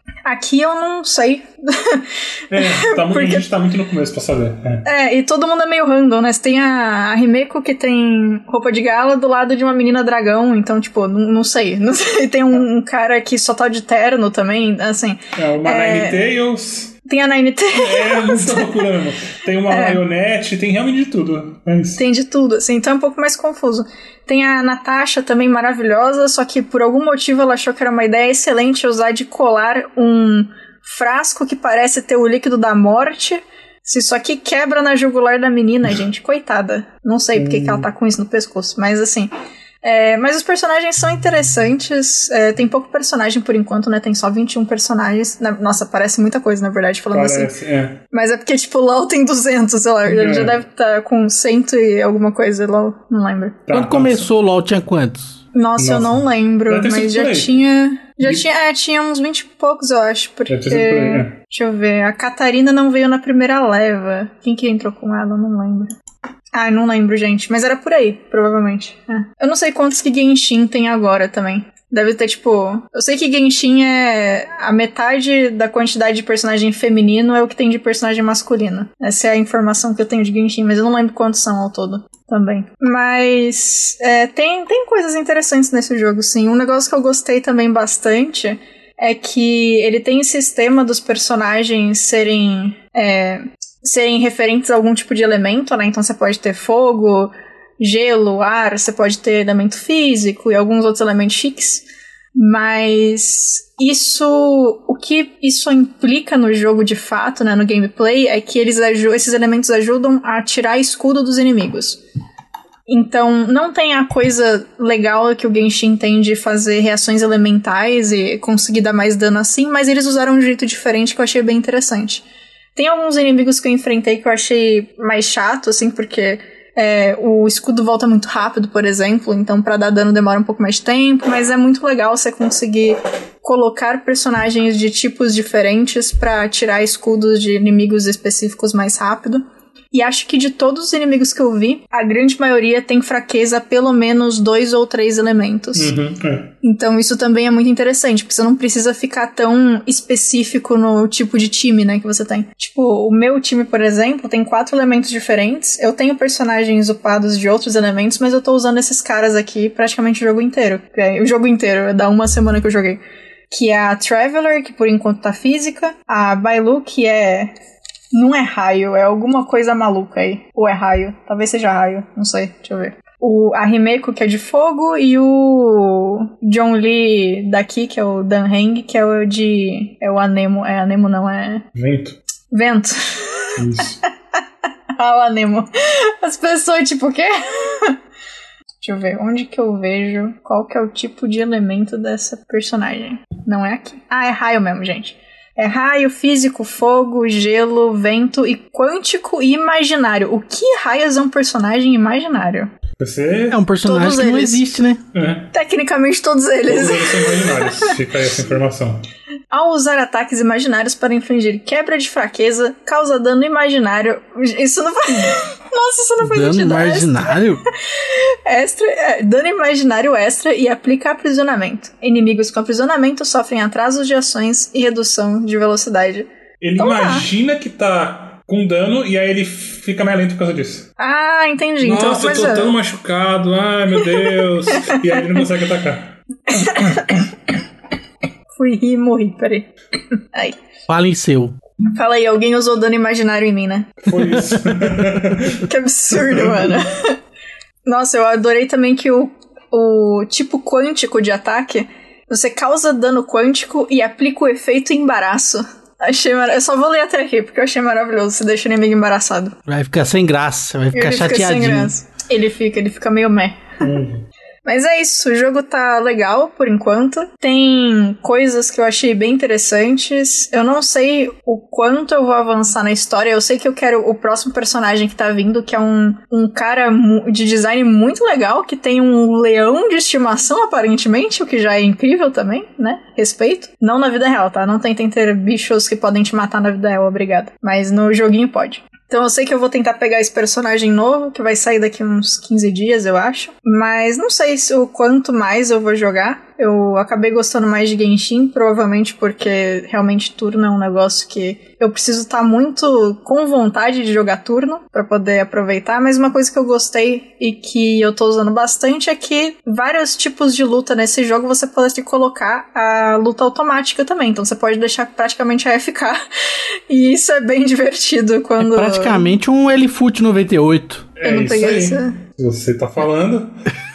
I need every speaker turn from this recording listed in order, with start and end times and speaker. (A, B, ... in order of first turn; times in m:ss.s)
0:00.2-0:03.5 A
0:02.5-0:04.9 B
0:04.8-0:16.3 A
0:15.4-0:17.0 B
0:17.1-0:18.8 A
0:17.7-0:22.0 B
0:19.7-0:20.0 A
0:22.0-0:39.3 A
0:37.4-0:37.9 B
0:39.8-0:47.5 A
0:47.1-0:48.0 B
0:48.1-0:53.7 A
0:50.1-0:50.6 B
0:53.7-0:54.3 B
0:53.7-0:55.4 C
0:55.5-1:06.0 A
0:55.8-0:57.5 B
1:00.5-1:01.3 B
1:06.5-1:41.8 A
1:42.4-1:52.0 A
1:52.9-2:02.2 A
2:02.8-2:25.9 A
2:25.8-2:26.5 B
2:26.6-2:43.0 A
2:43.5-2:47.5 A
2:48.1-3:01.6 A
3:01.8-3:02.2 B
3:02.5-3:03.5 A
3:03.6-3:04.0 B
3:05.0-3:08.0 A
3:08.8-3:22.7 A
3:23.0-3:23.6 B
3:23.5-3:25.0 C
3:23.8-3:24.6 A
3:25.1-3:25.5 B
3:25.5-3:28.0 A
3:26.7-3:29.0 B
3:29.5-3:37.4 A
3:36.2-3:37.6 C
3:37.9-3:47.3 A
3:46.6-3:50.9 B
3:51.0-3:52.7 A
3:51.8-3:56.2 B
3:54.7-3:55.4 A
3:56.5-3:57.3 A
3:58.6-3:59.7 A
4:00.9-4:01.6 C
4:01.9-4:04.1 A
4:04.1-4:05.7 B
4:05.6-4:07.2 A
4:06.2-4:06.5 B
4:07.8-4:19.6 A
4:19.7-4:21.9 C
4:20.9-4:23.7 A
4:23.8-4:24.3 B
4:24.6-5:16.2 A
5:16.9-5:19.3 A
5:18.6-5:21.1 C
5:21.2-5:23.5 B
5:21.2-5:22.2 A